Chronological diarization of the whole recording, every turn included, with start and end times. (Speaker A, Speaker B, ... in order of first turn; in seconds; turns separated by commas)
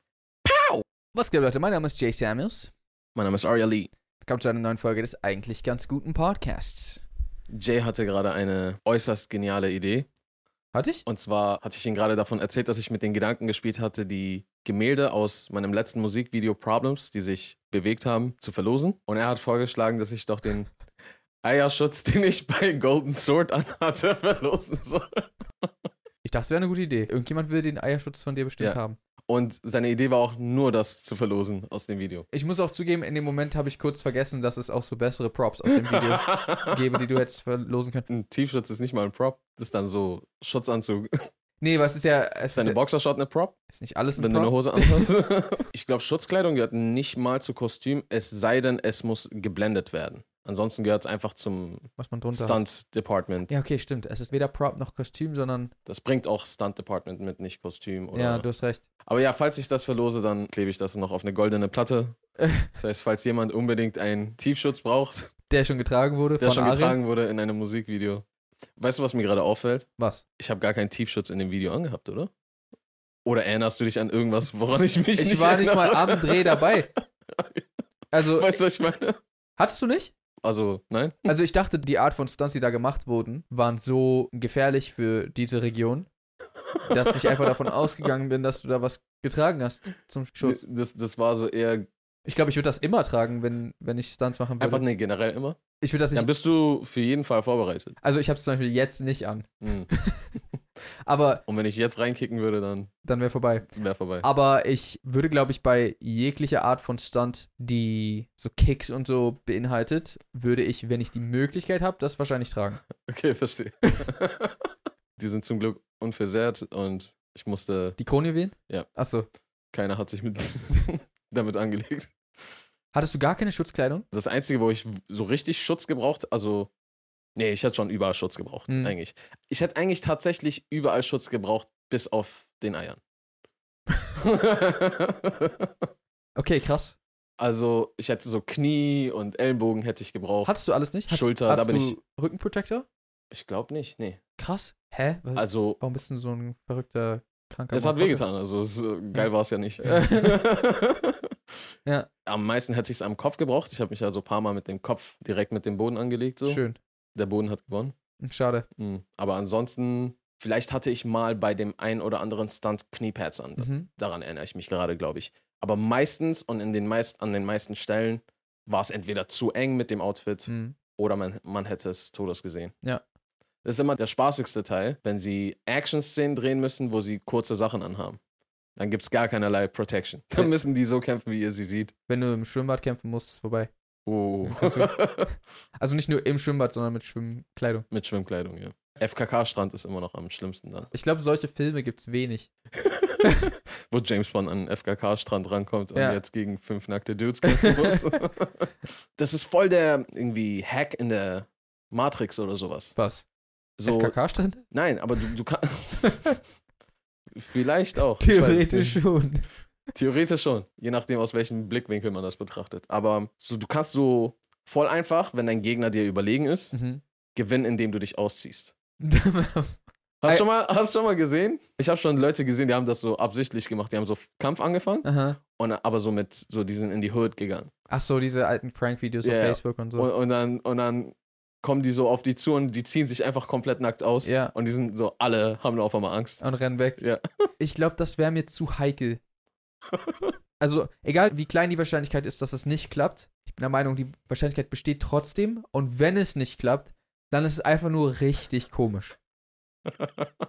Speaker A: 0.5-0.8, Speaker B: 1.1-2.7, Speaker A: 3.2-3.9, Speaker B: 4.2-7.0, Speaker A: 7.5-10.1, Speaker B: 10.7-11.0, Speaker A: 11.1-20.7, Speaker A: 21.4-25.7, Speaker B: 26.2-29.0, Speaker A: 28.6-32.3, Speaker B: 32.3-38.1, Speaker A: 35.9-36.7, Speaker A: 38.1-41.1, Speaker B: 41.6-42.8, Speaker A: 42.5-43.5, Speaker B: 43.7-45.1, Speaker A: 44.2-53.5, Speaker B: 52.0-52.6, Speaker B: 53.5-55.7, Speaker A: 55.9-58.5, Speaker B: 58.1-58.8, Speaker A: 59.1-62.2, Speaker B: 62.4-62.7, Speaker A: 62.7-65.3, Speaker B: 65.5-67.0, Speaker A: 66.4-68.2, Speaker A: 68.8-69.9, Speaker B: 70.0-70.2, Speaker A: 70.4-72.3, Speaker A: 73.2-76.8, Speaker B: 75.2-76.9, Speaker A: 77.3-79.2, Speaker B: 78.1-78.6, Speaker B: 79.6-80.1, Speaker A: 80.4-81.3, Speaker B: 81.3-86.1, Speaker B: 86.9-90.6, Speaker A: 87.1-87.5, Speaker A: 90.4-91.9, Speaker B: 92.3-94.8, Speaker A: 94.6-95.6, Speaker B: 95.8-96.3, Speaker A: 96.1-98.0, Speaker B: 98.0-100.3, Speaker A: 99.6-99.9, Speaker B: 101.0-101.4, Speaker A: 101.5-102.9, Speaker B: 103.0-103.7, Speaker A: 103.7-104.3, Speaker B: 104.2-112.8, Speaker A: 113.0-118.0, Speaker B: 118.0-119.3, Speaker A: 119.7-122.2, Speaker B: 122.9-124.1, Speaker A: 124.1-126.7, Speaker A: 127.4-133.0, Speaker B: 128.7-128.9, Speaker A: 134.2-135.7, Speaker B: 136.4-137.0, Speaker A: 137.4-140.5, Speaker B: 140.4-142.9, Speaker A: 141.1-142.0, Speaker A: 143.3-144.2, Speaker B: 144.4-148.2, Speaker A: 145.4-145.8, Speaker A: 147.7-151.3, Speaker B: 149.8-150.4, Speaker A: 152.3-156.6, Speaker B: 156.5-156.8, Speaker A: 157.2-157.9, Speaker B: 158.2-158.7, Speaker A: 158.8-172.8, Speaker B: 163.6-163.9, Speaker B: 170.5-170.8, Speaker A: 173.6-178.2, Speaker A: 178.8-181.9, Speaker B: 182.1-183.7, Speaker A: 184.1-185.3, Speaker B: 184.4-185.0, Speaker B: 185.8-187.9, Speaker A: 187.9-190.9, Speaker B: 190.9-192.5, Speaker A: 192.8-202.9, Speaker B: 193.2-193.5, Speaker B: 195.9-196.2, Speaker B: 197.5-198.0, Speaker B: 202.9-203.2, Speaker A: 203.8-206.3, Speaker B: 203.8-204.7, Speaker B: 206.1-206.4, Speaker A: 207.3-209.0, Speaker B: 208.0-209.5, Speaker A: 209.9-216.8, Speaker B: 216.7-217.0, Speaker A: 217.3-218.8, Speaker B: 219.0-220.4, Speaker A: 220.2-227.7, Speaker B: 225.0-225.4, Speaker B: 227.9-230.1, Speaker A: 229.2-236.4, Speaker B: 234.2-234.5, Speaker B: 236.4-237.0, Speaker B: 237.6-239.2, Speaker B: 240.6-249.2, Speaker A: 250.0-250.3